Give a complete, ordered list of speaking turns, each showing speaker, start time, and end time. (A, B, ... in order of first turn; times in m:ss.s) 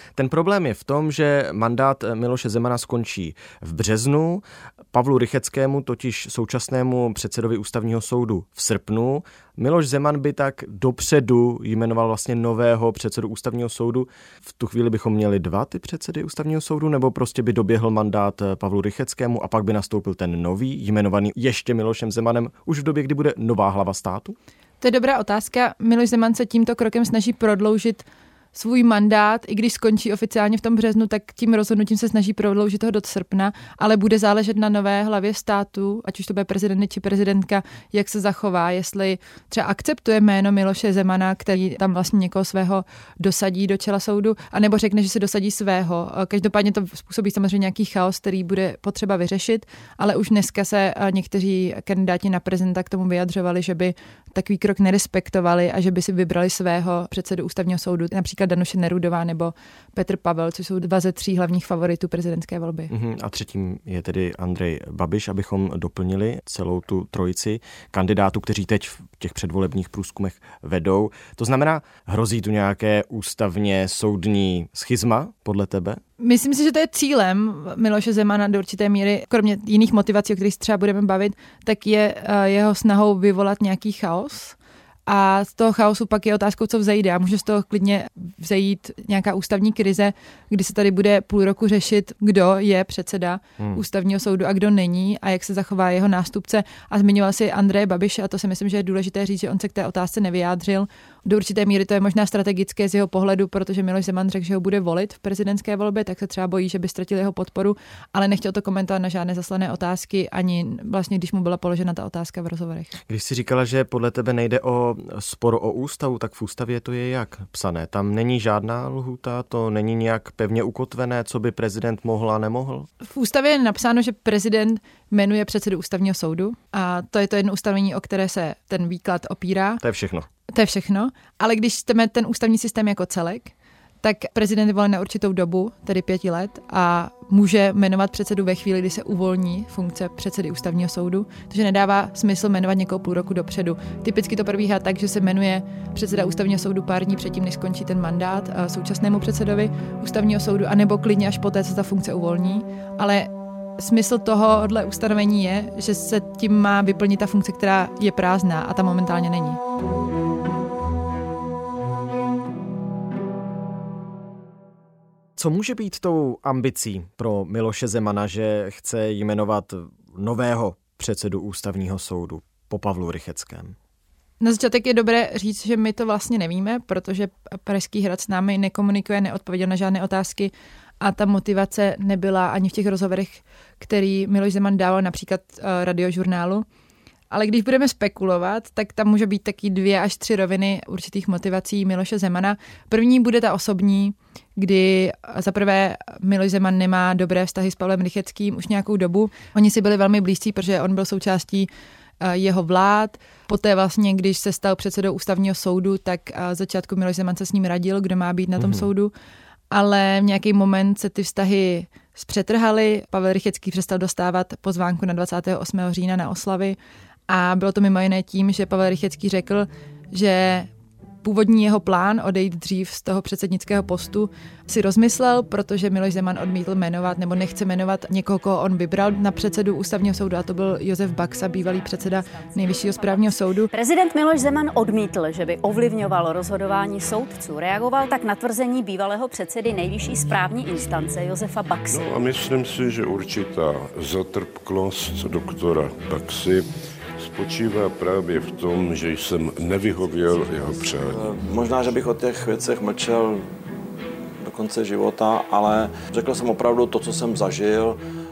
0:00.2-0:24.4 A
0:24.8-1:02.9 B
1:02.9-1:16.0 A
1:16.2-1:24.6 B
1:25.1-1:53.0 B
1:53.1-2:02.9 A
2:03.0-2:09.8 B
2:09.8-2:10.3 A
2:10.5-2:39.6 B
2:45.4-2:53.8 A
2:54.4-3:06.6 B
3:07.3-3:21.7 B
3:22.2-3:29.1 B
3:28.6-3:28.9 A
3:29.7-3:36.8 B
3:37.3-3:40.7 B
3:41.2-3:53.7 B
3:53.7-4:02.1 C
4:01.9-4:06.7 D
4:07.2-4:11.3 D
4:11.1-4:13.5 E
4:14.4-4:18.0 E